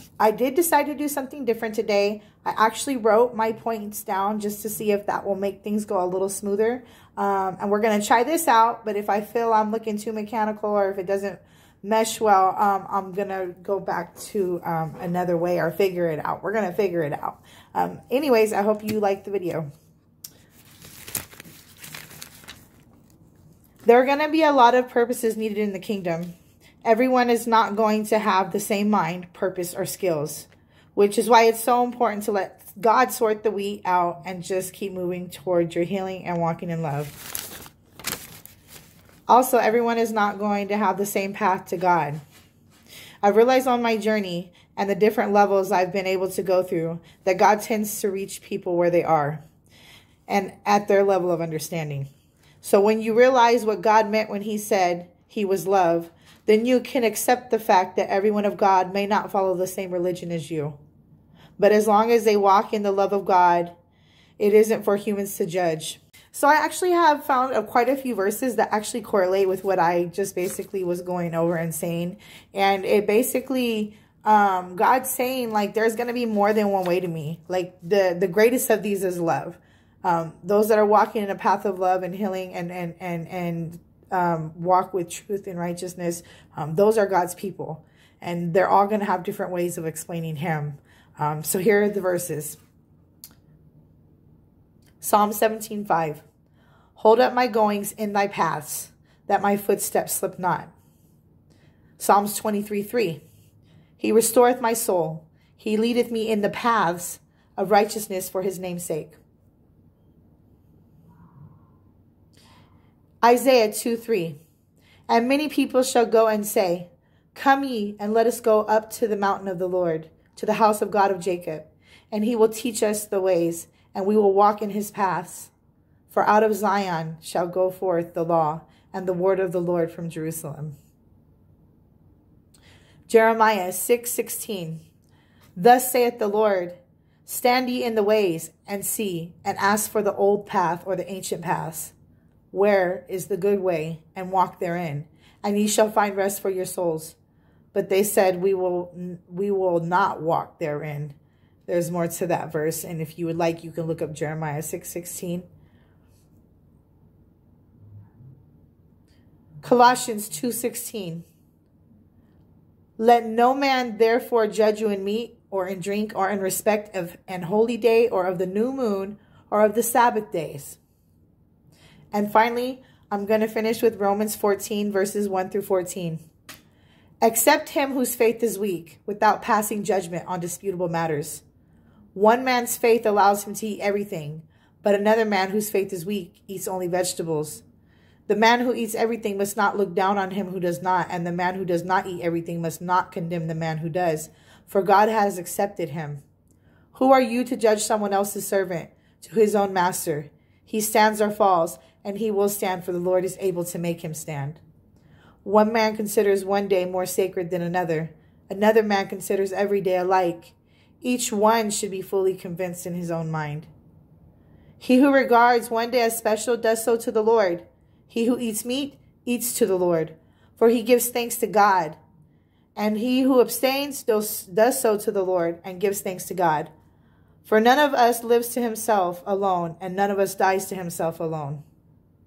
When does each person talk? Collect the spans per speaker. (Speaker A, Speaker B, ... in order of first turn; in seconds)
Speaker A: 0.2-19.7, 23.8-37.2, 39.3-42.2, 43.2-49.4, 50.3-52.1, 52.6-60.8, 61.6-63.7, 64.4-92.6, 95.0-96.2, 97.0-100.7, 102.0-103.2, 104.0-109.2, 113.2-114.4, 115.1-125.5, 126.1-130.8, 133.1-134.8, 135.6-141.9, 142.5-147.2, 147.7-151.2, 151.7-155.5, 159.6-161.2, 163.0-170.8, 172.1-176.2, 177.2-181.4, 182.1-187.6, 188.3-196.2, 196.9-204.6, 205.4-213.7, 214.8-222.0, 222.8-226.7, 227.4-231.6